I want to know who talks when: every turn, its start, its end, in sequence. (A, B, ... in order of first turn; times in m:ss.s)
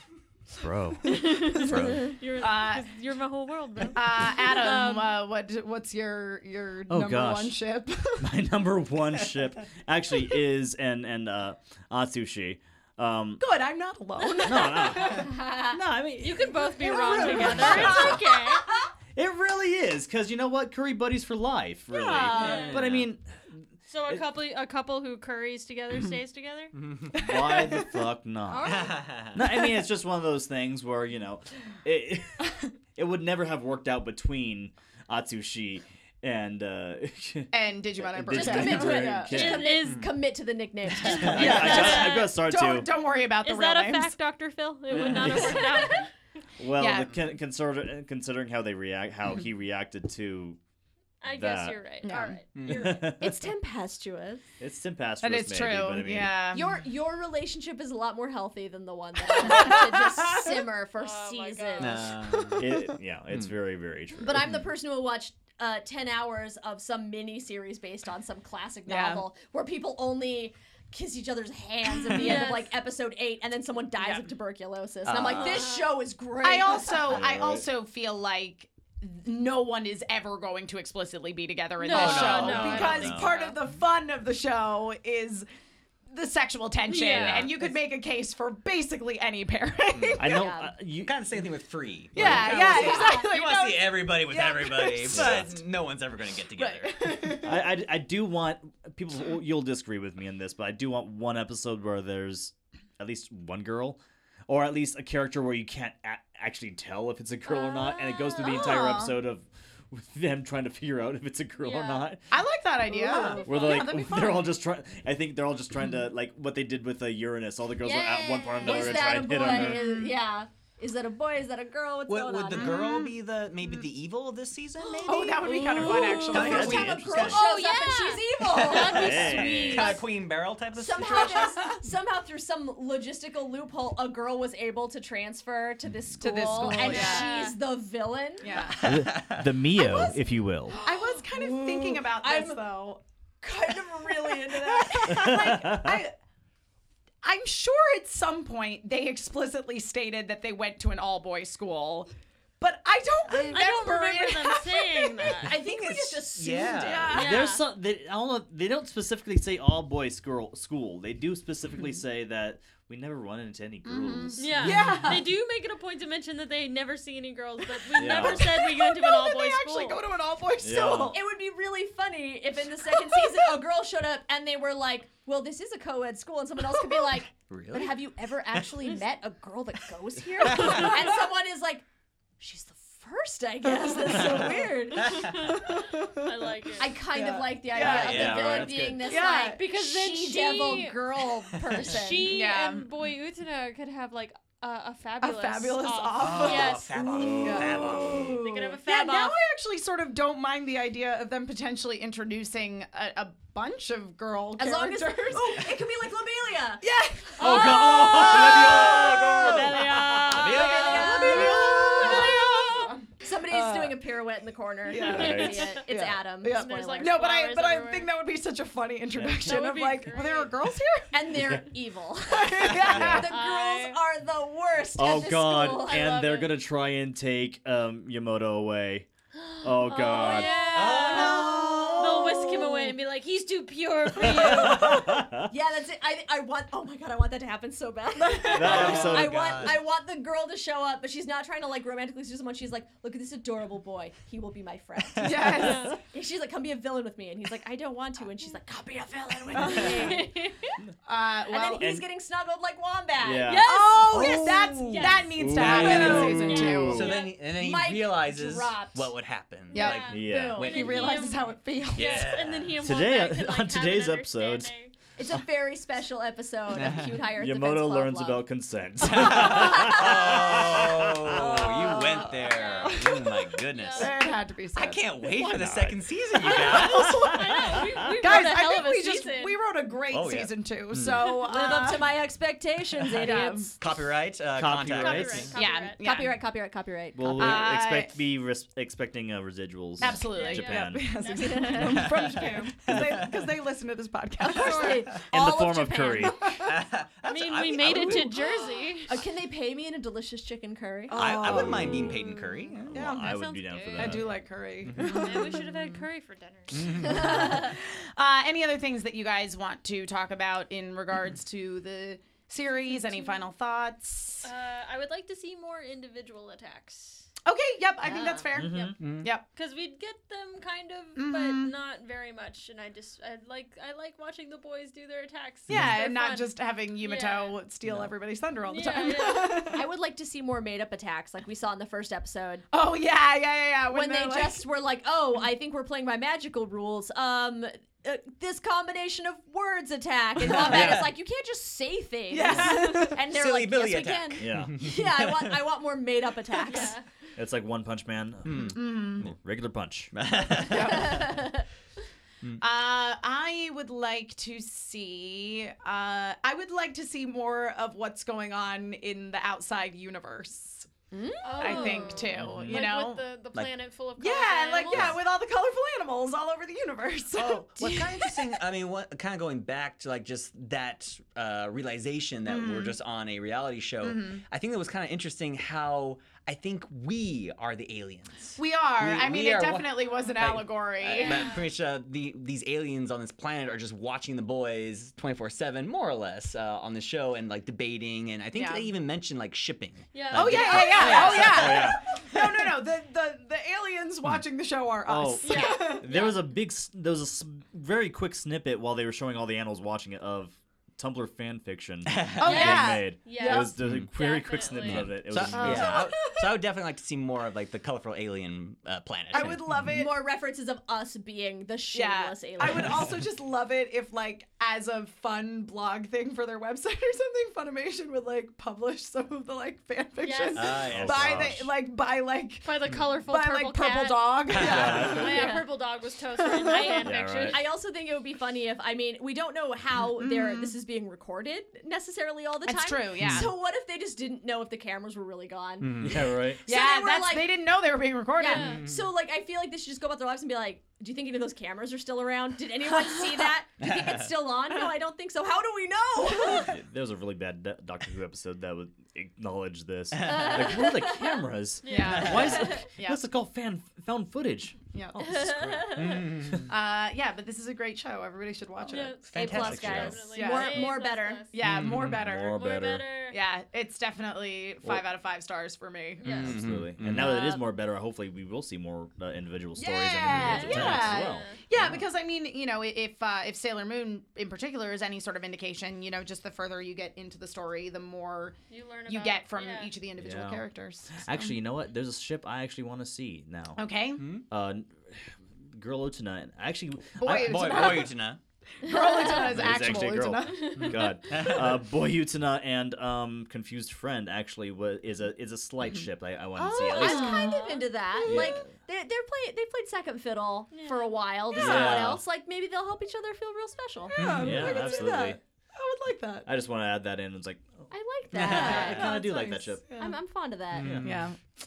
0:00.6-0:01.3 A
0:01.0-0:05.2 B
0:01.6-0:02.2 C
0:02.4-0:02.9 D
0:03.9-0:08.3 D
0:06.9-0:07.6 A
0:08.2-0:13.4 A
0:13.4-0:15.3 D
0:14.4-0:18.2 A
0:15.1-0:15.8 E
0:16.2-0:18.7 B
0:16.9-0:17.9 D
0:17.2-0:18.9 E
0:17.8-0:18.1 C
0:19.2-0:24.2 A
0:21.9-0:23.0 D
0:22.1-0:22.8 E
0:22.3-0:22.8 B
0:23.9-0:26.7 B
0:26.7-0:27.2 C
0:27.1-0:28.0 D
0:27.2-0:39.8 A
0:28.5-0:28.9 B
0:28.6-0:29.4 C
0:37.5-0:39.4 D
0:38.3-0:42.0 E
0:39.3-0:40.1 B
0:41.0-0:42.1 C
0:41.0-0:42.3 B
0:41.3-0:42.9 A
0:41.4-0:44.2 D
0:43.4-0:46.1 B
0:45.2-0:45.6 A
0:46.6-0:50.6 A
0:46.8-0:47.2 D
0:51.2-0:53.1 B
0:51.3-0:51.8 A
0:52.0-0:52.4 D
0:52.6-0:53.1 C
0:52.7-0:53.4 A
0:53.2-0:54.4 E
0:54.6-0:56.4 A
0:55.2-0:56.7 D
0:56.5-1:02.1 E
0:59.3-1:00.5 D
1:01.0-1:02.1 B
1:01.8-1:02.7 C
1:02.1-1:03.0 D
1:02.6-1:04.6 A
1:04.2-1:17.2 E
1:08.9-1:09.2 D
1:12.2-1:12.7 B
1:14.0-1:14.3 D
1:15.0-1:15.7 C
1:15.1-1:15.4 A
1:15.4-1:15.9 B
1:16.4-1:25.5 D
1:17.1-1:17.7 A
1:21.8-1:23.6 B
1:21.9-1:23.3 C
1:22.8-1:23.3 A
1:26.1-1:30.5 D
1:26.8-1:27.5 B
1:27.0-1:27.5 A
1:29.9-1:30.3 C
1:30.2-1:31.2 A
1:30.2-1:30.8 E
1:31.0-1:37.2 C
1:32.1-1:35.5 D
1:32.2-1:32.6 A
1:32.5-1:33.3 E
1:35.1-1:35.6 A
1:36.6-1:37.7 D
1:37.4-1:52.2 A
1:47.5-1:48.7 B
1:48.4-1:49.2 D
1:51.6-1:52.1 B
1:52.3-1:54.5 D
1:52.9-1:53.9 E
1:53.2-1:53.9 B
1:53.4-1:59.9 A
1:57.8-1:59.3 B
1:58.6-2:02.9 E
1:59.5-2:00.1 D
2:02.1-2:07.4 C
2:02.5-2:03.1 D
2:04.8-2:10.0 E
2:05.0-2:07.0 D
2:05.5-2:06.3 B
2:06.3-2:07.4 A
2:07.2-2:10.0 B
2:08.6-2:11.7 C
2:08.7-2:09.9 A
2:10.8-2:18.8 E
2:11.1-2:11.7 D
2:16.2-2:17.5 D
2:16.8-2:17.6 B
2:18.4-2:18.8 D
2:18.6-2:19.6 C
2:18.8-2:20.8 A
2:19.7-2:22.6 E
2:20.8-2:23.0 D
2:23.4-2:25.6 E
2:24.2-2:26.2 D
2:25.1-2:26.0 A
2:27.2-2:32.1 D
2:32.6-2:35.4 D
2:33.5-2:35.6 B
2:35.4-2:37.2 E
2:35.6-2:37.1 C
2:36.8-2:37.4 D
2:37.1-2:45.0 A
2:37.1-2:37.6 B
2:43.8-2:45.3 D
2:44.4-2:50.0 B
2:47.8-2:51.2 D
2:48.0-2:48.5 A
2:50.6-2:51.2 A
2:51.1-3:01.8 E
2:52.9-2:53.3 D
2:57.3-2:58.0 C
3:00.4-3:01.0 C
3:00.6-3:00.9 D
3:02.4-3:05.5 E
3:03.8-3:04.5 D
3:04.1-3:05.6 C
3:05.2-3:06.3 D
3:05.5-3:07.0 B
3:06.8-3:12.3 E
3:07.1-3:09.7 D
3:07.7-3:09.1 C
3:07.9-3:08.8 A
3:09.6-3:11.0 B
3:11.5-3:11.9 C
3:11.8-3:17.2 B
3:12.2-3:12.9 D
3:15.2-3:25.7 D
3:16.2-3:18.4 C
3:17.1-3:18.2 A
3:18.3-3:19.4 B
3:24.6-3:26.9 E
3:26.8-3:29.8 D
3:27.4-3:29.4 E
3:27.4-3:29.7 C
3:27.4-3:32.9 B
3:27.9-3:30.3 A
3:30.3-3:32.3 C
3:30.3-3:37.2 E
3:30.5-3:34.1 D
3:34.9-3:41.5 D
3:35.0-3:35.8 A
3:36.6-3:38.1 B
3:39.2-3:39.6 A
3:39.4-3:40.5 B
3:41.1-3:46.1 E
3:41.3-3:41.7 A
3:42.3-3:43.3 D
3:42.8-3:43.3 A
3:43.3-3:44.0 B
3:45.0-3:49.1 A
3:45.7-3:46.6 B
3:49.5-3:54.9 B
3:49.6-3:50.5 A
3:50.2-3:52.9 E
3:50.7-3:52.0 C
3:51.1-3:52.5 D
3:54.2-3:55.5 A
3:54.4-4:10.5 E
3:58.2-3:59.2 D
3:58.5-3:59.8 A
3:58.5-3:59.8 C
4:05.2-4:06.0 D
4:05.5-4:06.0 B
4:09.5-4:10.3 D
4:09.6-4:10.0 C
4:09.9-4:10.7 B
4:11.1-4:12.0 D
4:11.5-4:13.6 E
4:11.8-4:12.1 A
4:13.2-4:13.7 A
4:13.4-4:17.4 B
4:13.6-4:17.1 D
4:14.1-4:16.3 C
4:15.4-4:17.2 A
4:16.9-4:21.2 C
4:17.1-4:19.2 E
4:19.7-4:24.9 B
4:19.7-4:22.3 D
4:20.1-4:20.6 A
4:20.1-4:21.3 E
4:21.9-4:22.8 C
4:22.8-4:24.7 A
4:25.2-4:28.4 E
4:26.7-4:27.3 C
4:27.4-4:31.6 A
4:29.0-4:34.2 C
4:29.4-4:30.1 E
4:31.4-4:35.7 D
4:32.2-4:34.2 B
4:34.7-4:37.1 C
4:35.5-4:36.0 A
4:36.3-4:42.2 D
4:36.4-4:39.6 B
4:37.0-4:38.2 A
4:40.1-4:41.3 C
4:41.4-4:43.8 E
4:43.0-4:43.8 D
4:43.8-4:45.5 C
4:44.6-4:45.5 A
4:44.9-4:46.0 B
4:45.5-4:46.4 D
4:46.0-4:47.7 E
4:47.2-4:51.1 A
4:47.3-4:48.2 D
4:50.0-4:55.1 D
4:50.3-4:52.7 B
4:51.7-4:53.4 C
4:54.4-4:56.5 E
4:54.5-4:55.0 B
4:55.3-4:56.5 A
4:56.6-4:58.4 C
4:57.2-4:59.2 B
4:59.1-5:01.4 E
5:01.1-5:02.2 D
5:01.1-5:03.0 C
5:01.5-5:02.2 A
5:02.9-5:04.4 A
5:02.9-5:03.3 D
5:03.0-5:04.3 B
5:03.9-5:06.0 D
5:04.9-5:05.5 C
5:05.0-5:07.3 B
5:06.7-5:07.7 C
5:07.0-5:14.5 D
5:07.3-5:07.7 E
5:14.4-5:17.3 B
5:17.4-5:19.4 D
5:18.1-5:27.6 B
5:18.5-5:19.0 A
5:19.0-5:19.3 C
5:21.2-5:21.7 D
5:25.7-5:29.9 D
5:28.6-5:29.7 B
5:29.7-5:32.7 E
5:32.7-5:34.6 D
5:33.9-5:47.0 E
5:40.5-5:40.9 D
5:40.5-5:41.1 A
5:40.6-5:41.0 C
5:42.3-5:43.2 D
5:43.3-5:45.7 C
5:44.4-5:44.8 A
5:46.6-5:47.0 B
5:47.4-5:50.1 A
5:48.4-5:49.3 C
5:48.7-5:49.2 D
5:50.1-5:51.4 C
5:50.6-5:51.3 D
5:51.1-5:51.6 E
5:52.6-6:01.0 D
6:01.1-6:02.3 E
6:01.4-6:05.2 B
6:01.6-6:03.2 D
6:02.4-6:02.8 A
6:02.4-6:02.8 C
6:04.2-6:08.4 D
6:07.4-6:32.7 C
6:12.5-6:13.0 D
6:14.0-6:14.4 D
6:18.6-6:21.5 D
6:20.0-6:20.4 B
6:21.1-6:21.7 B
6:28.5-6:28.9 D
6:30.1-6:31.6 B
6:30.3-6:36.1 D
6:31.2-6:32.0 A
6:35.1-6:46.1 A
6:35.4-6:36.4 B
6:42.1-6:42.7 C
6:42.4-6:43.8 D
6:42.4-6:45.5 B
6:43.8-6:44.1 C
6:44.8-6:49.9 C
6:45.5-6:46.6 D
6:45.7-6:46.0 E
6:49.3-6:50.2 D
6:49.9-6:53.1 E
6:51.9-7:02.7 D
7:00.2-7:00.9 B
7:00.5-7:01.6 C
7:00.9-7:01.7 A
7:02.6-7:07.7 B
7:03.3-7:05.6 D
7:04.5-7:05.2 C
7:04.6-7:05.5 A
7:05.2-7:05.7 E
7:06.4-7:07.0 D
7:06.7-7:17.5 E
7:07.0-7:07.6 A
7:10.1-7:10.8 D
7:12.6-7:13.5 D
7:13.2-7:13.5 C
7:15.8-7:16.3 C
7:16.0-7:16.6 A
7:16.7-7:18.8 D
7:18.4-7:26.7 E
7:18.4-7:18.8 B
7:18.5-7:19.1 C
7:23.8-7:24.3 C
7:26.5-7:36.6 A
7:30.1-7:30.8 C
7:30.2-7:31.4 E
7:31.8-7:32.5 B
7:31.9-7:33.2 D
7:32.0-7:32.5 C
7:32.5-7:32.7 E
7:34.9-7:35.4 D
7:35.2-7:36.3 E
7:35.9-7:36.7 C
7:36.7-7:39.2 D
7:38.9-7:41.6 B
7:39.3-7:40.2 C
7:39.4-7:41.5 E
7:39.6-7:40.2 A
7:40.3-7:41.0 D
7:41.5-7:42.6 D
7:41.6-7:42.2 C
7:41.6-7:43.0 A
7:42.4-7:43.4 B
7:43.3-7:46.2 D
7:46.2-7:46.7 B
7:46.2-7:47.4 C
7:46.3-7:52.0 A
7:47.2-7:47.6 E
7:49.8-7:58.6 D
7:50.4-7:51.6 B
7:50.7-7:51.0 E
7:58.7-7:59.9 B
7:59.1-8:01.6 D
8:00.2-8:03.8 A
8:03.8-8:04.2 D
8:04.2-8:04.5 C
8:04.5-8:08.1 A
8:07.2-8:08.2 D
8:07.4-8:08.4 C
8:08.8-8:10.9 D
8:08.9-8:09.6 E
8:09.4-8:17.5 A
8:10.5-8:11.1 B
8:11.3-8:11.8 C
8:16.6-8:24.2 E
8:16.9-8:17.9 B
8:17.0-8:17.6 D
8:18.2-8:18.6 D
8:18.2-8:18.7 A
8:20.7-8:21.9 B
8:21.5-8:22.2 A
8:24.1-8:26.5 D
8:24.2-8:24.8 C
8:24.4-8:25.4 A
8:26.4-8:29.9 A
8:27.9-8:31.0 E
8:28.3-8:29.1 C
8:28.5-8:30.2 D
8:30.7-8:31.3 C
8:30.8-8:31.1 A
8:31.0-8:31.4 D